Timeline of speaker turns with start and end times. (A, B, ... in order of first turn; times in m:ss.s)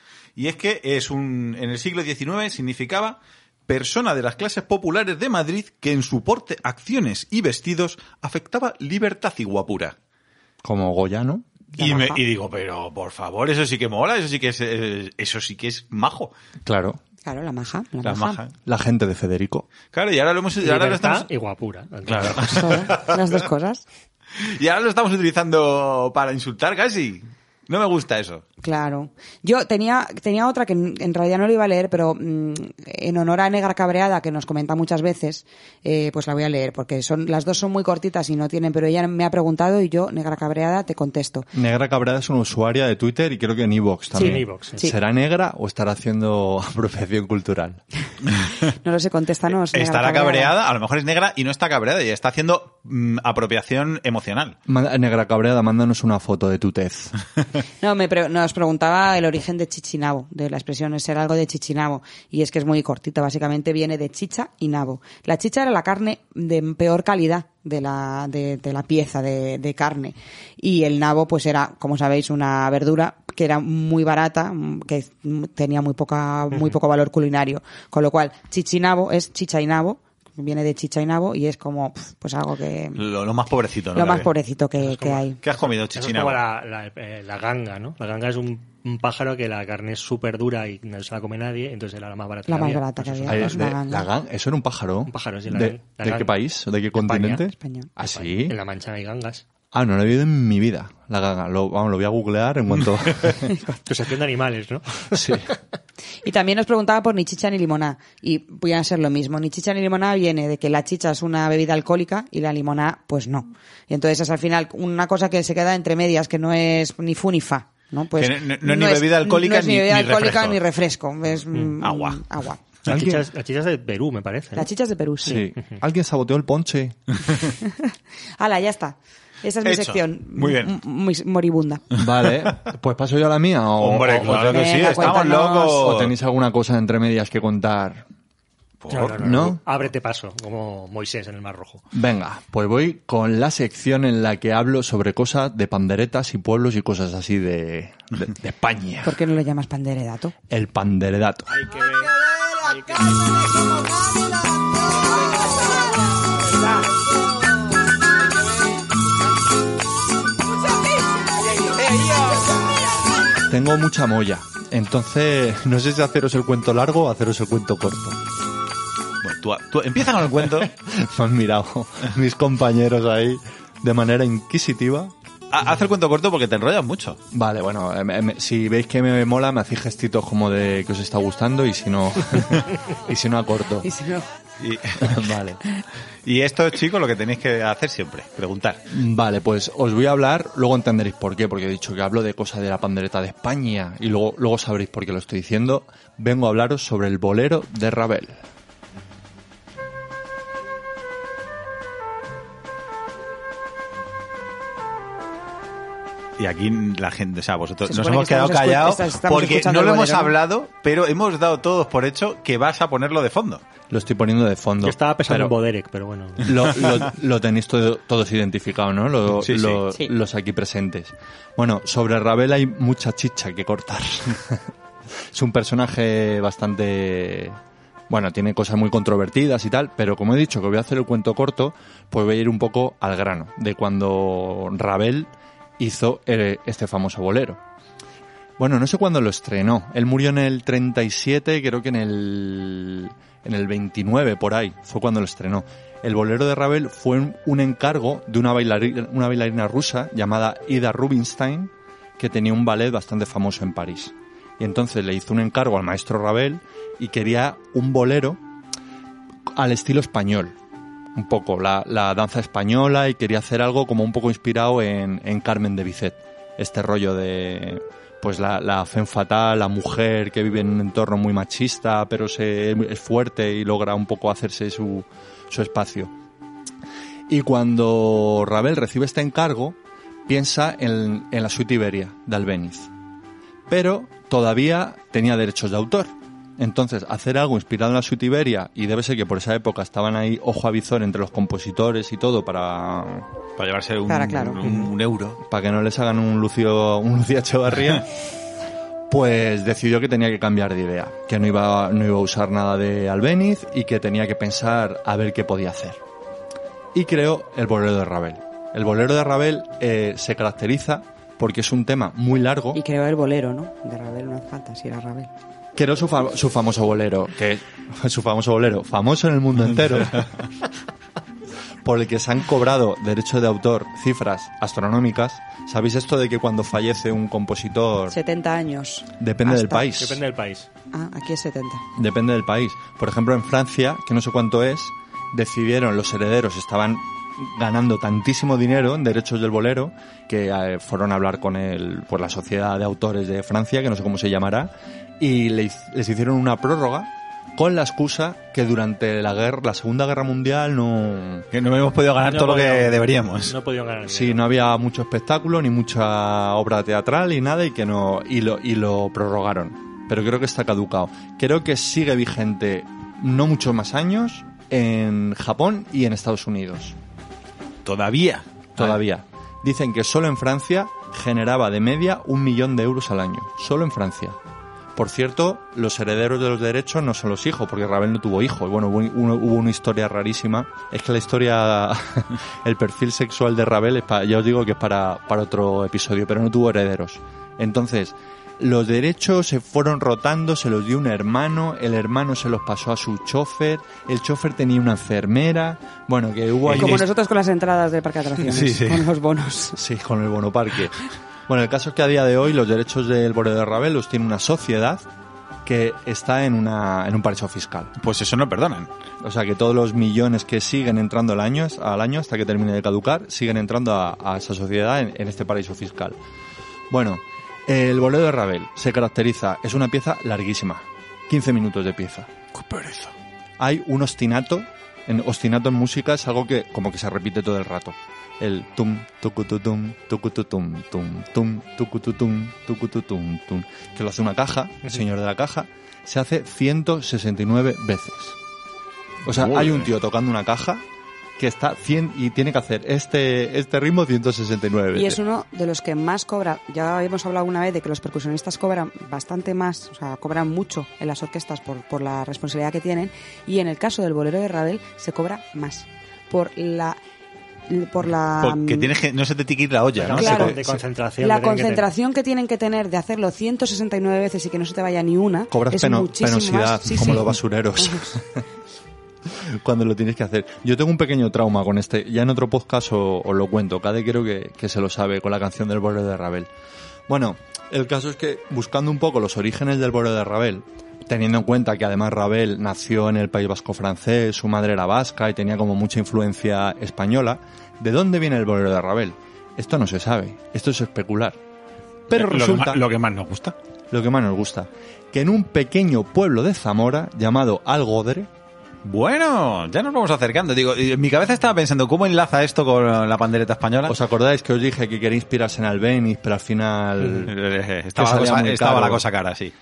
0:00.4-0:09.9 A
0:10.6-0:11.4 B
0:11.8-0:12.2 C
0:11.8-0:16.3 A
0:16.6-0:17.0 B
0:17.2-0:18.4 C
0:18.0-0:18.5 A
0:18.6-0:19.7 B
0:19.9-0:21.3 A
0:20.6-0:22.8 D
0:22.0-0:23.2 A
0:22.4-0:23.8 C
0:24.4-0:28.4 A
0:28.6-0:41.5 C
0:41.5-0:47.8 B
0:44.1-0:45.0 C
0:44.2-0:44.8 D
0:48.3-0:48.5 A
0:48.8-0:50.5 C
0:49.7-0:54.6 A
0:54.7-0:57.1 B
0:57.8-1:23.0 C
1:23.0-1:24.3 A
1:23.9-1:25.4 C
1:24.8-1:25.2 D
1:25.4-1:26.4 A
1:25.9-1:33.6 D
1:32.5-1:34.1 C
1:33.3-1:38.6 B
1:35.1-1:36.3 D
1:37.0-1:37.4 D
1:37.6-1:37.9 C
1:38.0-1:39.4 D
1:39.7-1:43.5 B
1:43.8-1:45.5 D
1:45.1-1:45.5 B
1:46.2-2:02.6 C
1:58.2-2:00.6 A
2:01.8-2:02.2 A
2:02.9-2:03.2 B
2:02.9-2:04.7 D
2:04.6-2:05.4 C
2:05.2-2:07.0 B
2:05.3-2:05.8 D
2:07.6-2:11.8 C
2:09.6-2:10.7 A
2:11.9-2:12.6 A
2:11.9-2:18.0 B
2:13.8-2:16.1 A
2:14.3-2:15.8 C
2:18.8-2:19.2 A
2:18.9-2:21.8 D
2:19.1-2:19.6 B
2:21.9-2:29.2 B
2:29.0-2:30.3 C
2:30.5-2:31.6 B
2:43.4-2:48.2 B
2:49.2-2:50.7 A
2:50.6-2:55.1 B
2:55.5-2:57.2 A
2:57.3-3:03.9 B
3:03.8-3:04.3 C
3:04.6-3:05.2 A
3:05.0-3:05.6 B
3:06.2-3:08.8 A
3:08.9-3:18.4 B
3:26.4-3:33.6 A
3:27.9-3:30.3 C
3:33.9-3:35.5 B
3:34.8-3:36.8 D
3:36.4-3:44.6 B
3:39.3-3:39.8 A
3:45.3-3:47.6 B
3:48.1-3:57.6 B
3:58.6-4:18.4 B
4:19.5-4:20.6 B
4:21.1-4:36.1 B
4:37.3-4:42.9 B
4:43.7-4:53.3 B
4:53.6-4:55.4 A
4:54.1-4:54.6 C
4:55.4-4:58.1 B
4:59.1-5:06.0 B
5:06.9-5:12.8 B
5:12.7-5:15.3 C
5:15.7-5:20.2 B
5:21.8-5:28.2 B
5:28.1-5:29.9 C
5:29.2-5:30.2 B
5:29.9-5:30.7 D
5:30.9-5:31.8 C
5:32.0-5:51.4 B
5:51.5-5:53.5 A
5:52.2-5:54.4 D
5:54.1-6:07.0 B
6:07.8-6:08.9 A
6:08.8-6:14.4 B
6:15.0-6:37.0 B
6:36.6-6:37.0 A
6:36.7-6:39.8 C
6:38.4-6:39.1 A
6:39.8-6:45.0 B
6:45.6-6:47.9 B
6:48.0-6:48.9 A
6:49.2-6:56.2 B
6:56.9-7:02.3 B
7:02.5-7:03.1 A
7:03.6-7:18.4 B
7:19.2-7:20.8 B
7:19.3-7:19.9 A
7:21.4-7:25.2 B
7:24.9-7:37.0 C
7:37.7-7:38.9 C
7:38.4-7:40.6 A
7:40.0-7:41.8 D
7:40.2-7:40.6 C
7:40.2-7:40.5 B
7:41.2-7:48.1 C
7:45.5-7:48.4 B
7:49.3-7:56.5 B
7:57.1-8:11.4 B
8:12.1-8:12.8 B
8:12.1-8:13.6 A
8:13.9-8:18.3 B
8:18.8-8:23.9 A
8:23.8-8:27.3 B
8:27.0-8:29.5 A
8:27.9-8:29.0 B